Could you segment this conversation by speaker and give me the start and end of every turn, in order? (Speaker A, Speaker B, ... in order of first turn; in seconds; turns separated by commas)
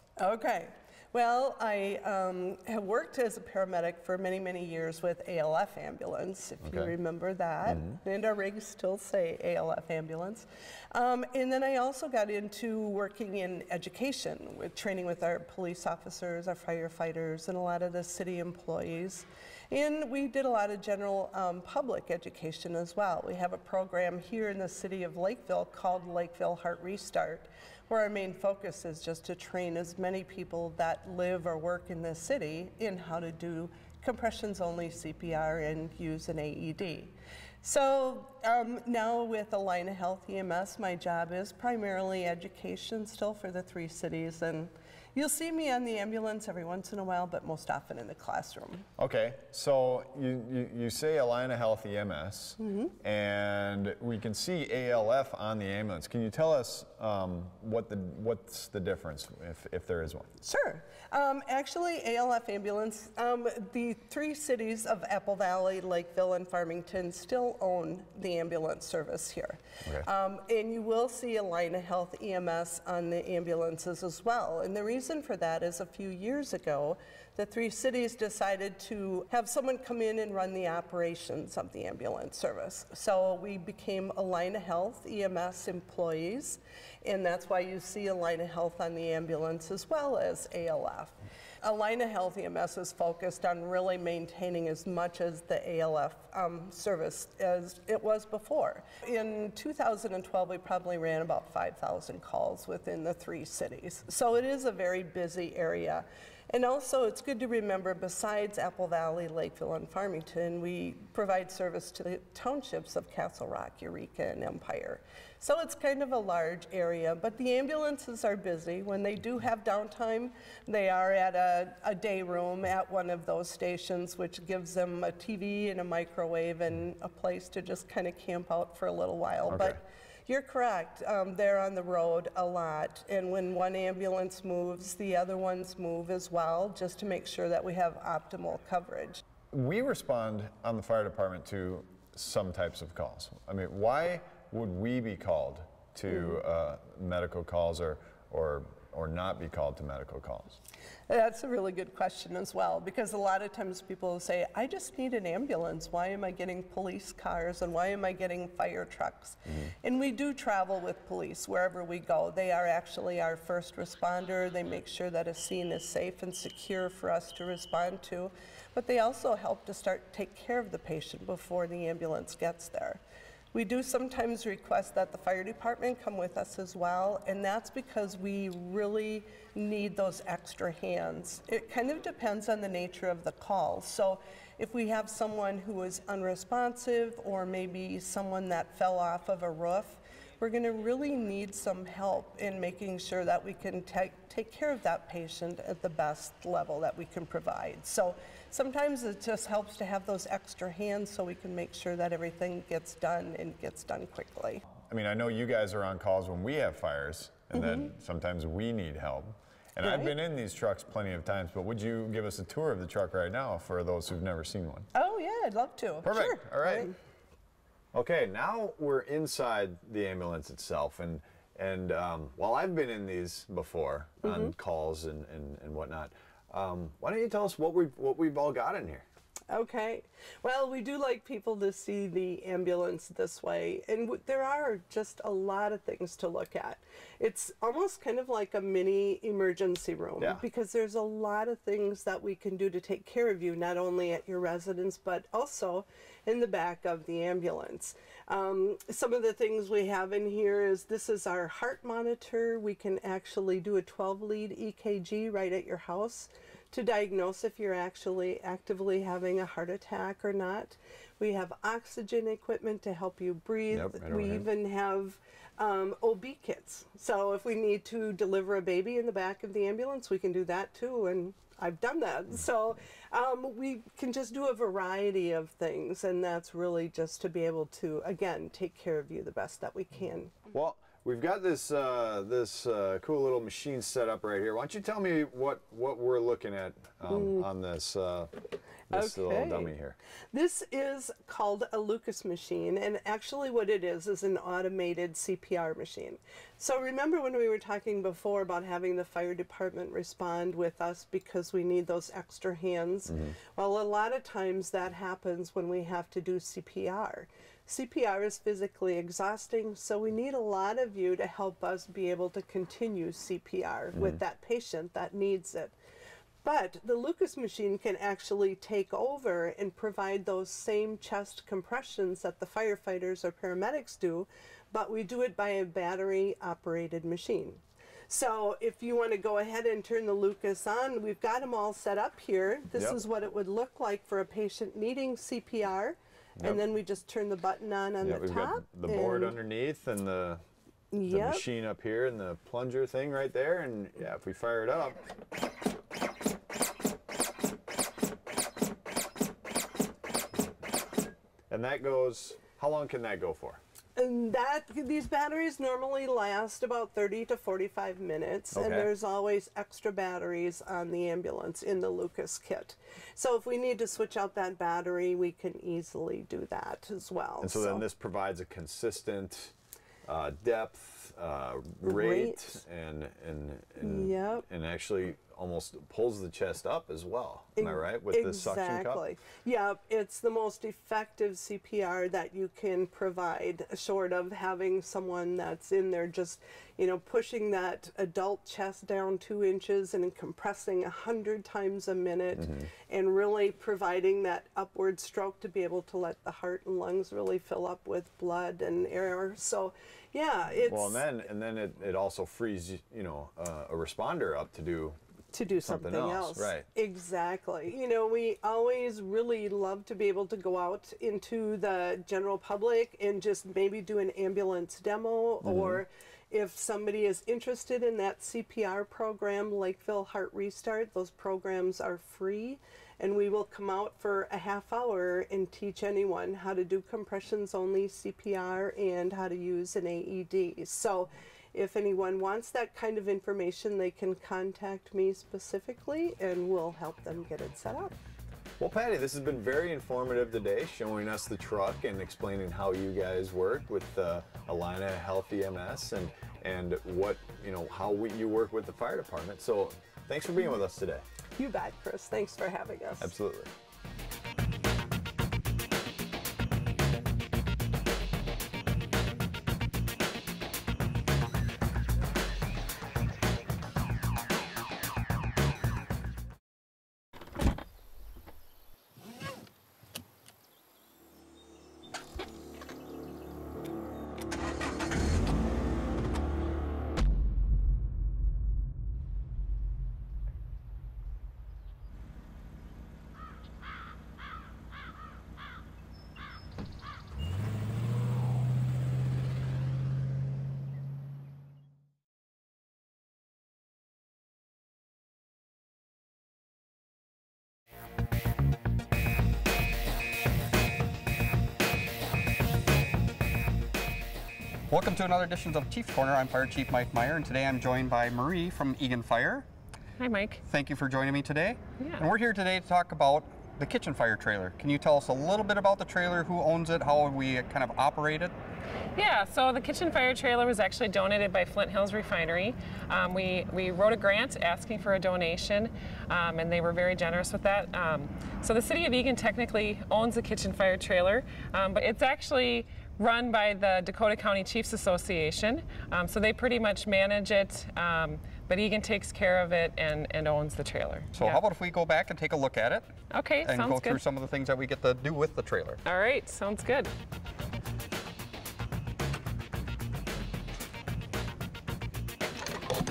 Speaker A: 0.2-48.9, Speaker B: 6.6-6.9, Speaker B: 7.6-8.0, Speaker B: 49.0-60.3, Speaker A: 52.6-52.9, Speaker A: 60.4-139.2, Speaker B: 129.5-129.8, Speaker B: 139.5-150.6, Speaker A: 146.1-146.4, Speaker A: 151.1-173.0, Speaker B: 159.4-159.7, Speaker A: 173.5-204.6, Speaker B: 204.8-214.9, Speaker A: 207.5-207.9, Speaker A: 209.8-210.1, Speaker A: 214.9-216.9, Speaker B: 216.0-216.9, Speaker B: 217.9-229.1, Speaker A: 224.2-224.5, Speaker A: 229.5-280.4, Speaker B: 263.7-264.5, Speaker B: 280.5-288.3, Speaker A: 287.1-287.4, Speaker B: 288.9-290.0, Speaker A: 288.9-289.7, Speaker A: 290.3-315.7, Speaker B: 303.1-303.3, Speaker B: 313.9-314.2, Speaker A: 316.4-339.4, Speaker B: 332.7-333.0, Speaker B: 336.4-336.7, Speaker B: 338.0-340.4, Speaker A: 340.9-341.4, Speaker B: 341.1-345.0, Speaker B: 351.5-353.6, Speaker A: 353.9-367.8, Speaker B: 358.5-358.9, Speaker B: 367.4-369.5, Speaker B: 370.1-379.0, Speaker A: 371.8-372.6, Speaker A: 373.8-374.4, Speaker A: 377.6-401.0, Speaker B: 392.3-392.7, Speaker B: 400.6-405.0, Speaker A: 405.3-437.9, Speaker B: 405.6-406.7, Speaker B: 415.4-415.8, Speaker B: 438.6-451.0, Speaker A: 451.4-453.1, Speaker B: 453.0-453.5, Speaker C: 504.7-509.5, Speaker D: 510.0-510.4, Speaker C: 510.5-518.3, Speaker D: 511.8-512.0, Speaker D: 519.0-541.4, Speaker C: 541.1-542.9, Speaker D: 543.1-544.0, Speaker C: 543.4-545.8, Speaker D: 545.8-546.9